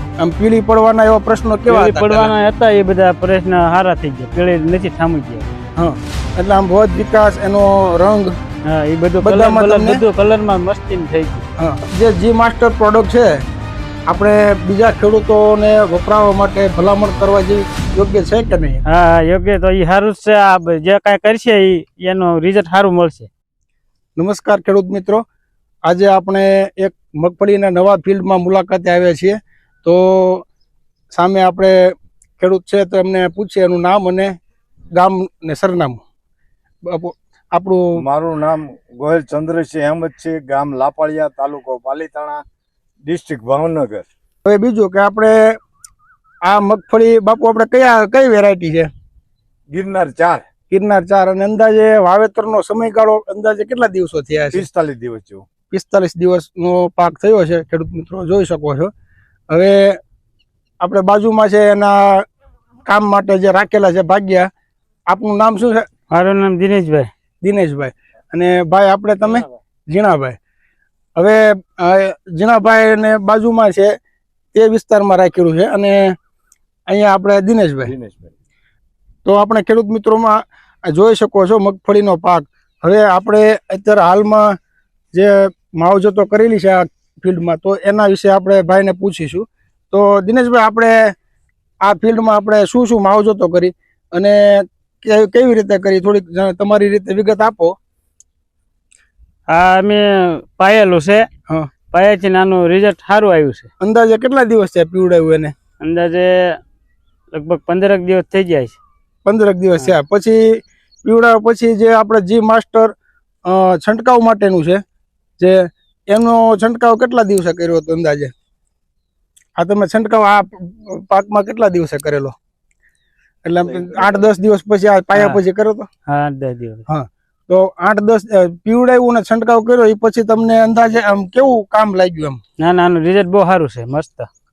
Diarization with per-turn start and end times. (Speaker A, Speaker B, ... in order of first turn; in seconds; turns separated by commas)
Speaker A: 0.2-2.3, Speaker B: 1.7-5.5, Speaker A: 5.8-8.3, Speaker B: 8.7-11.5, Speaker A: 9.2-10.0, Speaker A: 11.6-13.4, Speaker A: 14.1-18.8, Speaker B: 18.9-23.3, Speaker A: 24.2-25.2, Speaker A: 25.9-30.4, Speaker A: 31.2-34.3, Speaker A: 35.0-36.0, Speaker A: 36.9-38.0, Speaker C: 38.0-42.4, Speaker C: 43.0-44.1, Speaker A: 44.5-45.6, Speaker A: 46.5-48.9, Speaker C: 49.7-50.4, Speaker A: 50.7-54.6, Speaker C: 54.5-55.5, Speaker A: 55.7-58.9, Speaker A: 59.5-60.0, Speaker A: 60.8-62.2, Speaker A: 62.9-64.5, Speaker A: 65.1-65.9, Speaker B: 66.1-67.1, Speaker A: 67.4-70.4, Speaker A: 71.2-73.9, Speaker A: 74.5-76.2, Speaker A: 76.9-77.9, Speaker C: 77.9-78.3, Speaker A: 79.2-84.6, Speaker A: 85.1-91.2, Speaker A: 91.8-97.8, Speaker B: 99.5-101.3, Speaker B: 101.9-103.7, Speaker A: 103.8-105.5, Speaker B: 105.8-106.6, Speaker B: 107.3-108.8, Speaker A: 109.2-112.9, Speaker A: 113.5-114.8, Speaker A: 115.4-118.3, Speaker A: 119.6-122.3, Speaker A: 123.5-125.9, Speaker B: 126.1-126.8, Speaker A: 126.9-132.4, Speaker B: 132.6-134.3